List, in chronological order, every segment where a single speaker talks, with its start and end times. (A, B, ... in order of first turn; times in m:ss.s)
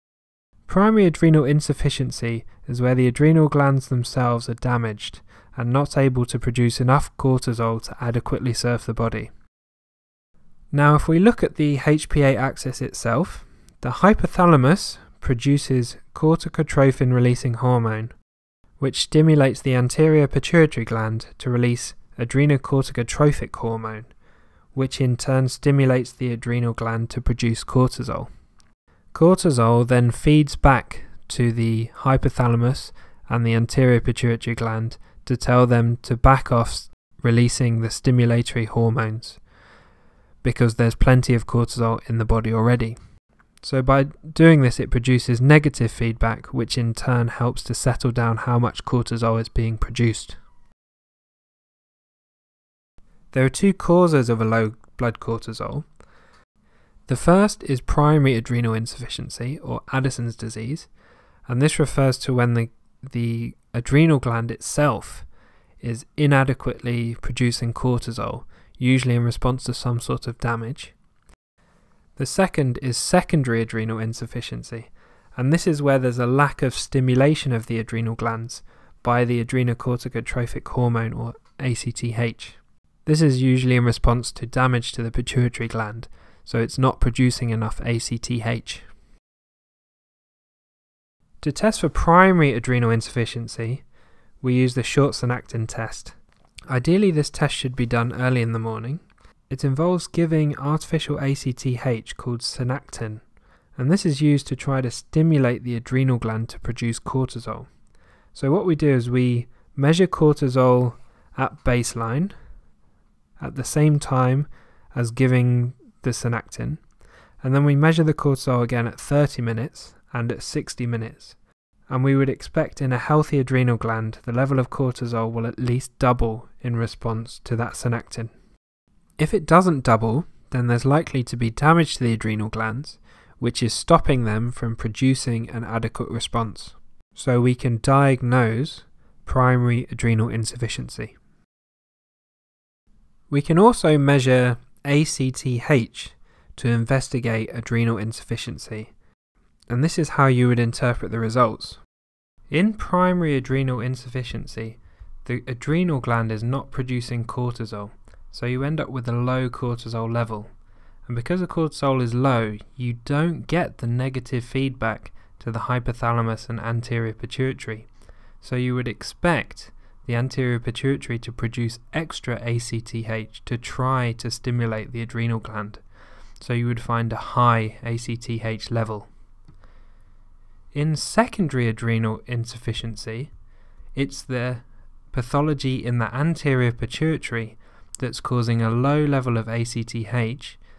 0:00.7-0:09.3 A
0:10.7-0:18.1 A
0:18.8-0:24.1 A
0:24.7-0:28.3 A
0:29.1-0:39.4 A
0:40.4-0:43.0 A
0:43.6-0:50.4 A
0:53.3-0:55.8 A
0:57.1-1:00.9 A
1:01.5-1:05.3 A
1:05.8-1:10.9 A
1:12.2-1:28.8 A
1:31.4-1:33.8 A
1:34.4-1:36.2 A
1:36.7-1:43.2 A
1:43.8-1:47.7 A
1:48.3-1:52.3 A
1:53.4-1:56.8 A
1:57.4-2:01.4 A
2:01.9-2:08.3 A
2:09.2-2:21.2 A
2:23.3-2:28.9 A
2:29.7-2:31.8 A
2:32.5-2:40.5 A
2:41.1-2:47.9 A
2:48.4-2:55.8 A
2:56.4-2:59.1 A
3:00.7-3:03.3 A
3:04.0-3:10.6 A